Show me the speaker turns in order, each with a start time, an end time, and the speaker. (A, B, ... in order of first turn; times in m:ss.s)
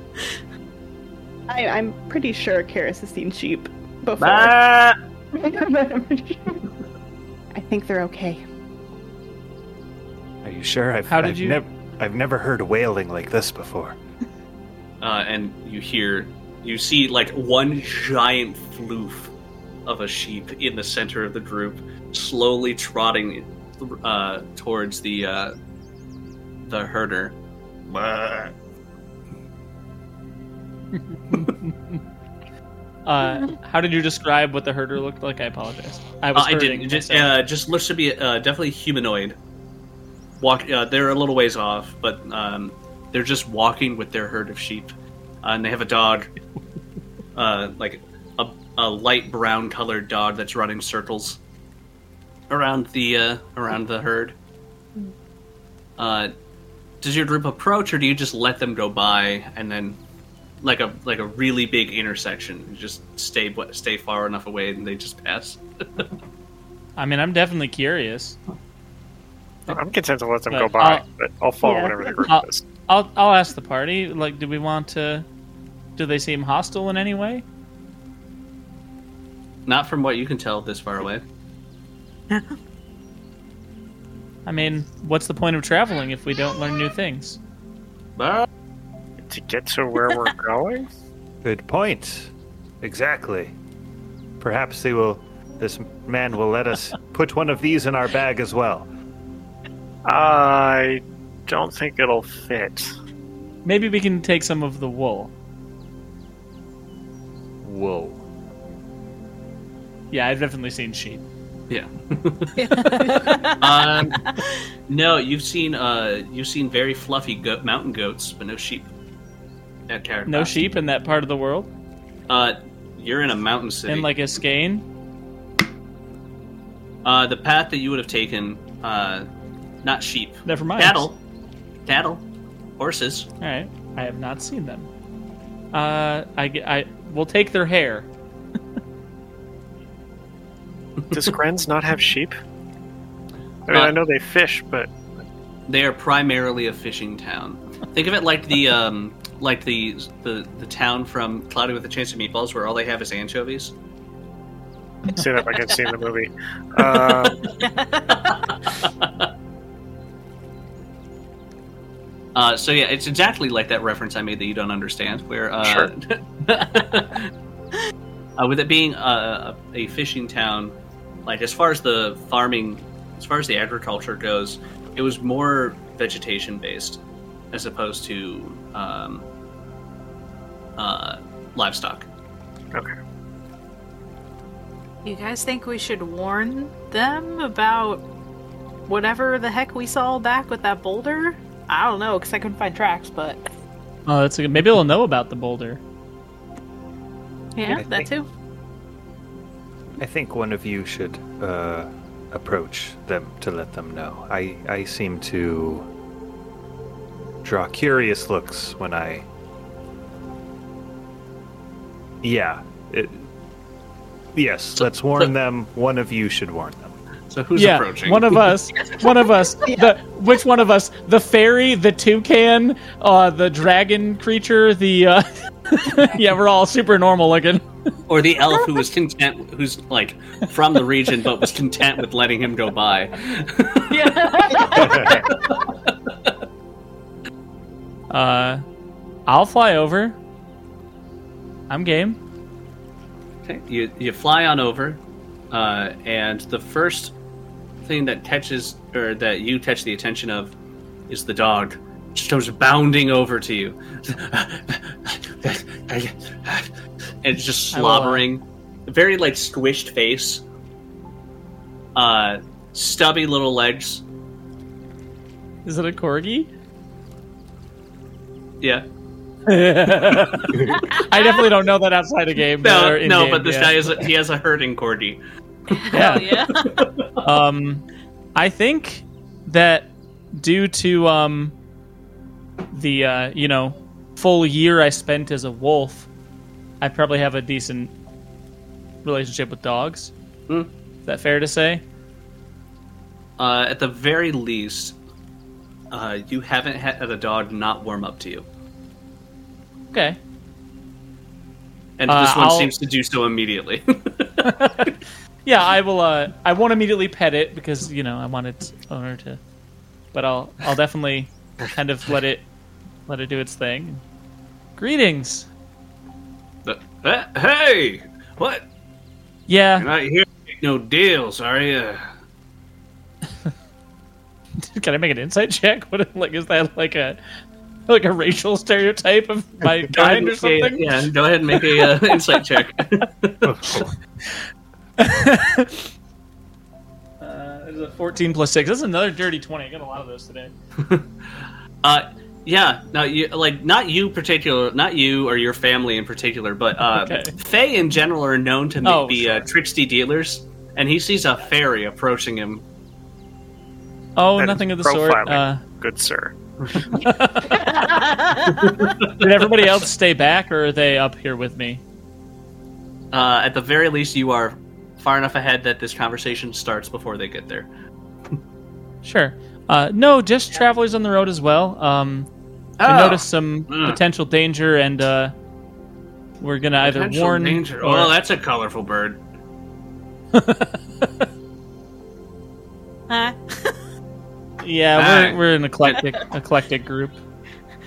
0:01.5-0:04.6 A
0:04.2-0:05.0 B
0:05.3-0:06.6 A
0:07.6-0:08.4 A
0:10.4-0:14.0 C
0:11.1-0:11.6 D
0:15.0-0:19.3 B
0:19.9-0:25.6 B
0:26.6-0:27.4 B
0:27.9-0:28.5 B
0:31.2-0:32.0 D
0:33.1-0:37.3 D
0:36.3-0:39.4 B
0:40.4-0:44.9 B
0:45.4-0:46.3 B
0:47.4-0:51.4 B
0:52.5-0:54.4 B
0:56.0-0:56.3 B
0:57.0-1:00.0 B
1:00.6-1:06.1 B
1:07.0-1:08.4 D
1:09.7-1:12.6 E
1:10.5-1:11.0 D
1:11.6-1:12.3 A
1:12.3-1:15.3 D
1:16.0-1:17.4 D
1:19.7-1:21.2 B
1:24.5-1:27.4 D
1:28.2-1:28.5 B
1:29.2-1:30.9 E
1:31.4-1:33.6 C
1:34.4-1:38.9 C
1:40.0-1:42.9 E
1:43.6-1:45.3 D
1:47.6-1:48.2 C
1:50.1-1:51.2 D
1:51.7-1:52.8 B
1:52.6-1:53.7 F
1:53.5-1:54.3 B
1:54.3-1:54.5 F
1:54.9-1:58.9 B
1:59.9-2:00.6 B
2:00.3-2:01.7 D
2:02.3-2:04.1 B
2:03.9-2:04.8 D
2:07.0-2:09.3 B
2:09.8-2:11.2 B
2:10.5-2:11.1 D
2:11.9-2:12.2 B
2:12.8-2:13.3 B
2:13.4-2:14.9 D
2:15.7-2:18.1 D
2:21.1-2:22.4 E
2:23.7-2:24.9 E
2:25.7-2:33.7 B
2:35.1-2:37.5 E
2:37.2-2:37.5 B
2:37.6-2:38.5 F
2:38.1-2:39.3 B
2:42.4-2:47.3 B
2:45.6-2:45.9 E
2:48.4-2:57.0 B
2:57.5-2:59.3 B
3:00.8-3:02.1 B
3:05.0-3:08.0 F
3:08.9-3:13.4 F
3:14.1-3:15.8 D
3:17.6-3:18.3 F
3:17.7-3:18.1 C
3:20.0-3:25.9 C
3:27.4-3:29.3 C
3:32.2-3:33.3 C
3:34.3-3:37.0 C
3:37.3-3:38.4 B
3:37.6-3:47.6 D
3:48.1-3:56.3 B
3:53.9-3:55.2 F
3:54.7-3:55.2 C
3:58.1-3:58.6 D
3:59.3-4:00.2 D
4:01.7-4:02.2 D
4:03.4-4:07.1 B
4:07.8-4:10.5 B
4:11.1-4:16.7 B
4:17.2-4:20.4 B
4:17.7-4:18.3 D
4:22.0-4:24.0 B
4:25.6-4:26.5 D
4:28.6-4:28.9 B
4:29.5-4:34.1 D
4:30.1-4:30.8 B
4:30.7-4:31.6 F
4:32.6-4:35.2 B
4:35.7-4:37.1 B
4:35.7-4:36.7 F
4:35.9-4:36.4 D
4:37.2-4:41.6 D
4:42.7-4:46.1 D
4:46.8-4:47.9 D
4:49.0-4:50.1 D
4:51.1-4:51.8 D
4:53.4-4:55.0 B
4:55.9-4:58.5 B
4:59.9-5:00.2 D
5:02.0-5:04.9 B
5:02.1-5:02.7 D
5:04.4-5:04.9 D
5:05.4-5:09.4 D
5:10.1-5:12.5 D
5:13.1-5:14.0 D
5:14.8-5:15.5 D
5:16.6-5:18.7 B
5:19.5-5:19.9 D
5:19.8-5:22.1 B
5:24.6-5:27.2 D
5:27.9-5:32.2 D
5:29.9-5:33.8 B
5:33.5-5:33.9 C
5:35.0-5:35.9 D
5:37.2-5:40.5 D
5:40.8-5:41.3 B
5:41.8-5:52.6 B
5:46.8-5:47.3 D
5:48.8-5:49.5 D
5:54.2-5:55.6 D
5:54.4-5:56.4 E
5:56.9-5:57.9 D
5:57.8-5:58.6 F
5:58.4-5:59.7 B
5:59.1-6:01.8 D
6:03.1-6:07.7 B
6:09.0-6:12.3 D
6:12.8-6:14.0 B
6:12.8-6:15.3 D
6:16.4-6:18.1 D
6:16.8-6:19.2 B
6:20.3-6:21.3 D
6:23.1-6:23.8 F
6:24.6-6:27.2 D
6:25.0-6:25.4 B